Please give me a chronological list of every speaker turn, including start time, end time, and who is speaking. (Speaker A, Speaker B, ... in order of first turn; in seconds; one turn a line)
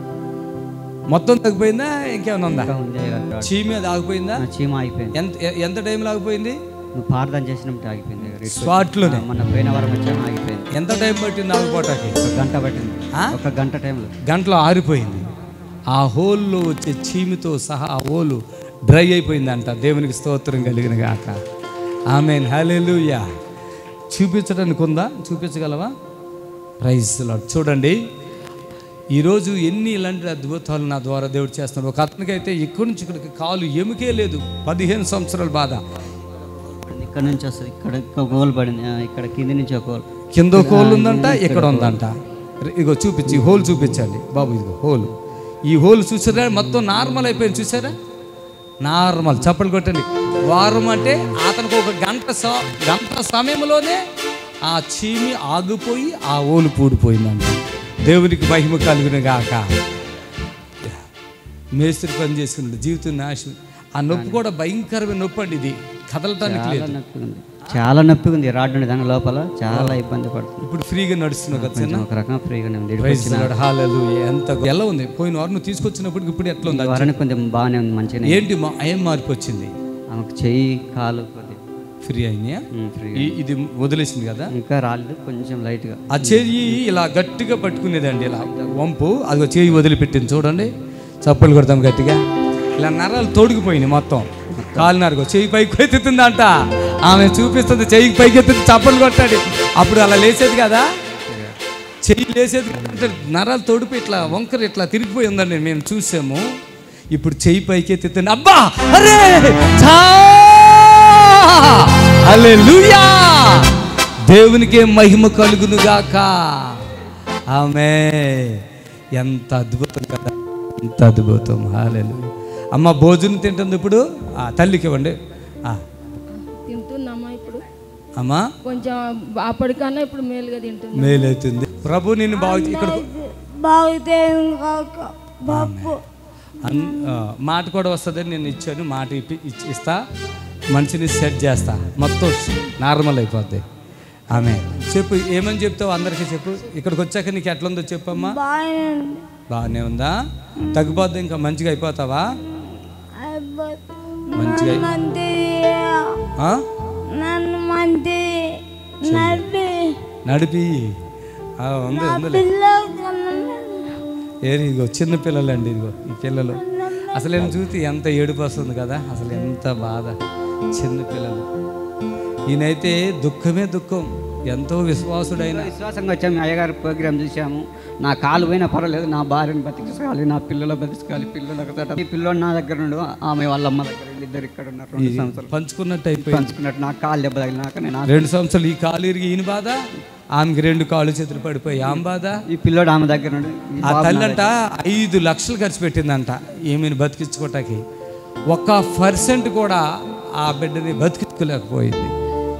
Speaker A: 1.1-2.7
Speaker B: 2.6-3.5
Speaker A: 3.4-4.4
Speaker B: 4.4-5.2
Speaker A: 5.2-6.6
Speaker B: 6.9-10.7
Speaker A: 8.5-9.2
Speaker A: 10.7-12.2
Speaker B: 12.2-14.1
Speaker A: 14.2-15.3
Speaker A: 15.9-21.4
Speaker A: 22.1-23.3
Speaker A: 24.1-25.9
Speaker A: 26.8-28.0
Speaker A: 29.1-35.8
Speaker B: 36.8-42.0
Speaker A: 40.3-45.1
Speaker B: 43.3-44.0
Speaker A: 45.6-48.0
Speaker A: 48.8-54.0
Speaker A: 54.6-59.7
Speaker A: 61.7-67.0
Speaker B: 64.1-64.4
Speaker B: 66.4-70.7
Speaker A: 69.7-70.0
Speaker A: 70.6-72.0
Speaker B: 71.5-73.6
Speaker A: 73.0-77.1
Speaker B: 76.6-78.5
Speaker A: 78.3-79.7
Speaker B: 80.1-81.6
Speaker A: 82.0-82.6
Speaker B: 82.7-83.4
Speaker A: 83.2-84.5
Speaker B: 84.5-86.7
Speaker A: 86.1-90.7
Speaker B: 88.4-88.8
Speaker A: 91.2-92.2
Speaker A: 92.8-96.5
Speaker B: 94.6-94.9
Speaker A: 97.0-100.9
Speaker B: 101.1-101.6
Speaker A: 102.0-106.5
Speaker A: 107.1-113.7
Speaker A: 114.2-116.9
Speaker A: 117.5-118.6
Speaker A: 119.2-125.8
Speaker C: 126.5-127.6
Speaker A: 128.2-128.5
Speaker C: 128.6-131.3
Speaker A: 130.9-133.1
Speaker D: 132.3-136.0
Speaker A: 135.5-136.0
Speaker A: 136.6-140.0
Speaker D: 136.7-137.2
Speaker A: 140.7-143.6
Speaker A: 144.3-148.4
Speaker D: 148.2-149.3
Speaker A: 149.5-150.2
Speaker A: 150.7-152.3
Speaker D: 152.7-156.3
Speaker A: 154.3-154.9
Speaker A: 156.4-156.6
Speaker D: 157.0-160.1
Speaker A: 159.0-159.5
Speaker A: 160.2-161.0
Speaker A: 161.6-162.5
Speaker D: 161.9-164.1
Speaker A: 164.4-170.2
Speaker D: 166.6-167.6
Speaker A: 170.7-171.5
Speaker A: 172.5-175.7
Speaker B: 175.4-185.6
Speaker A: 185.0-186.5
Speaker B: 186.2-188.3
Speaker A: 188.1-189.8
Speaker A: 190.3-192.4
Speaker B: 192.5-194.5
Speaker A: 193.8-197.8
Speaker A: 198.5-199.8
Speaker A: 200.4-202.1